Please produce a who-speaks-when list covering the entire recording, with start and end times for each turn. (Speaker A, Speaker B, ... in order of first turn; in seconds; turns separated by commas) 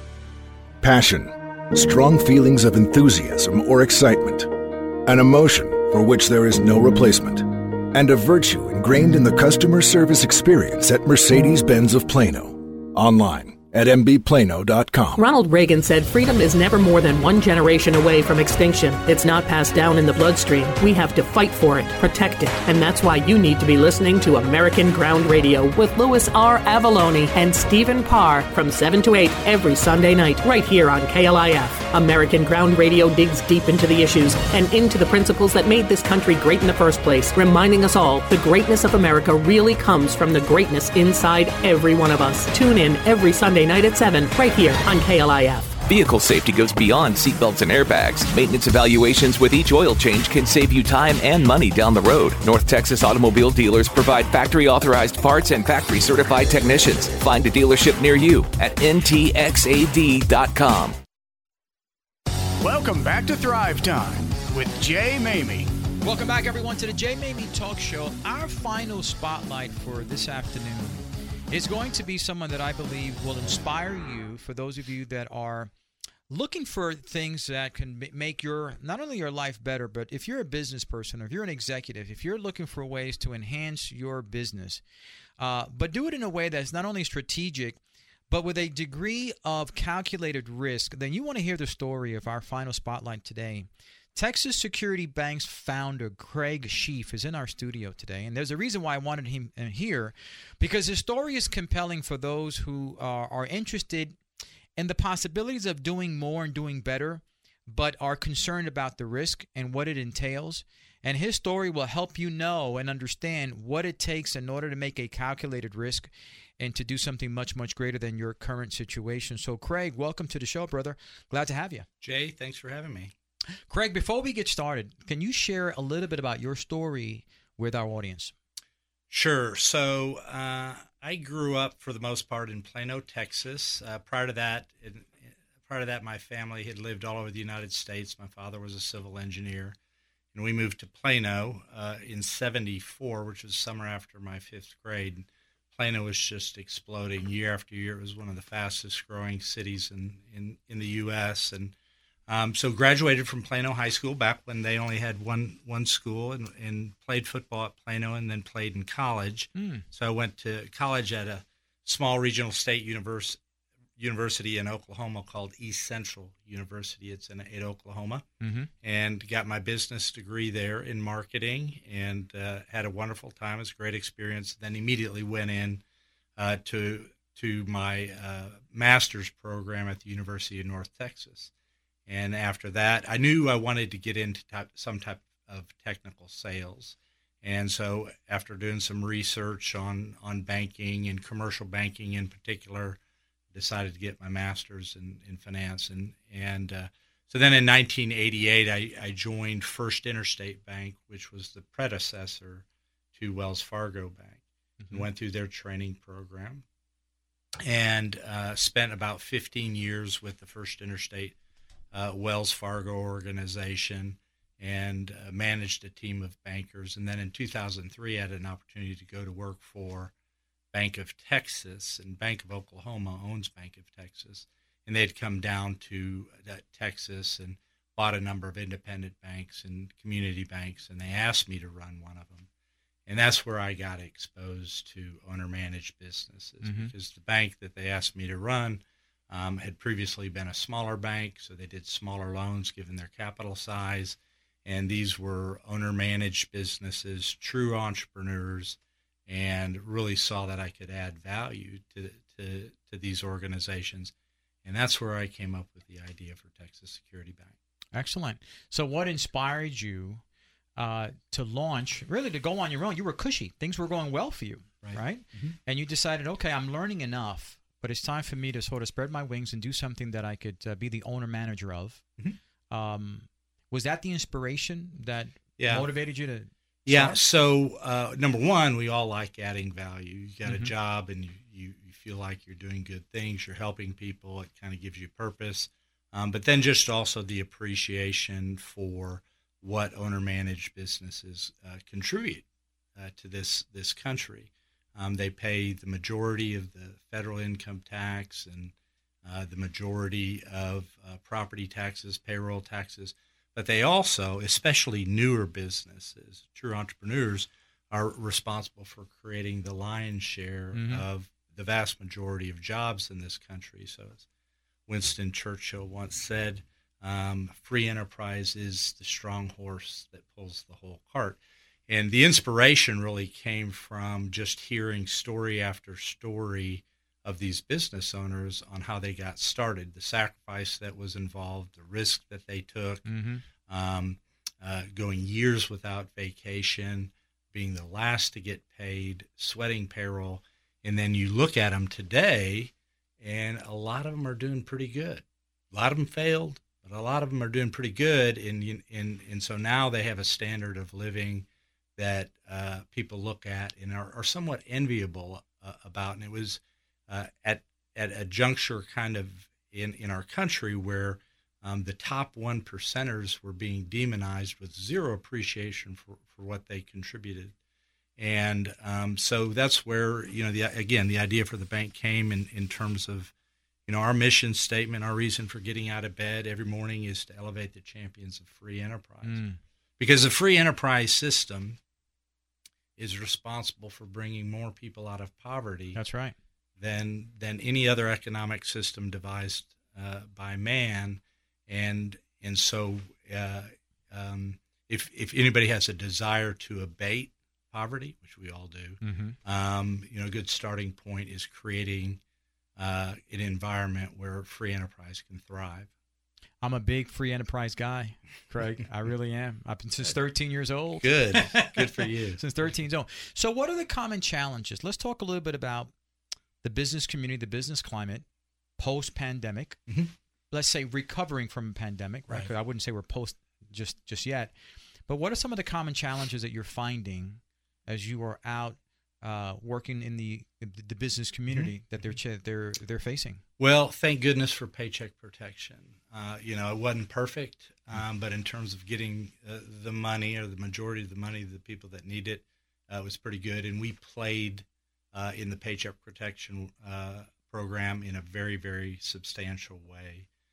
Speaker A: 0.8-15.2, Speaker B: 15.2-45.7, Speaker C: 45.9-60.9, Speaker D: 62.6-65.7, Speaker E: 66.0-75.7, Speaker E: 76.3-84.8, Speaker E: 85.4-87.8, Speaker E: 88.3-104.2, Speaker E: 104.8-121.8, Speaker F: 122.0-123.1, Speaker E: 123.7-128.3, Speaker F: 129.1-139.8, Speaker F: 140.3-151.7, Speaker F: 152.3-163.4, Speaker E: 159.6-159.8, Speaker F: 164.0-168.2, Speaker E: 168.4-168.7, Speaker F: 168.8-175.8, Speaker F: 176.4-181.5, Speaker F: 182.1-193.0, Speaker F: 193.5-206.6, Speaker F: 207.6-211.3, Speaker F: 211.9-220.1, Speaker F: 220.7-232.5, Speaker F: 233.1-254.1, Speaker E: 236.6-236.9, Speaker F: 254.6-257.5, Speaker E: 257.9-260.2, Speaker E: 260.8-272.0, Speaker F: 264.8-265.6, Speaker E: 272.7-277.2, Speaker F: 275.6-275.9, Speaker F: 276.9-292.4, Speaker E: 280.4-280.7, Speaker F: 293.0-298.7, Speaker F: 299.2-314.2, Speaker E: 310.7-311.1, Speaker F: 314.9-333.1, Speaker E: 333.1-333.4, Speaker F: 333.6-351.4, Speaker F: 352.0-367.5, Speaker F: 368.2-373.3, Speaker F: 373.9-379.4, Speaker E: 379.2-379.6, Speaker F: 380.0-381.8, Speaker F: 383.0-386.0, Speaker E: 385.9-386.3, Speaker F: 386.8-402.2, Speaker E: 399.0-399.4, Speaker F: 402.8-405.9, Speaker E: 406.6-415.9, Speaker F: 411.0-412.4, Speaker E: 416.6-418.2, Speaker E: 418.8-419.8, Speaker E: 420.5-424.5, Speaker E: 425.1-433.4, Speaker F: 431.5-432.1, Speaker F: 433.6-450.3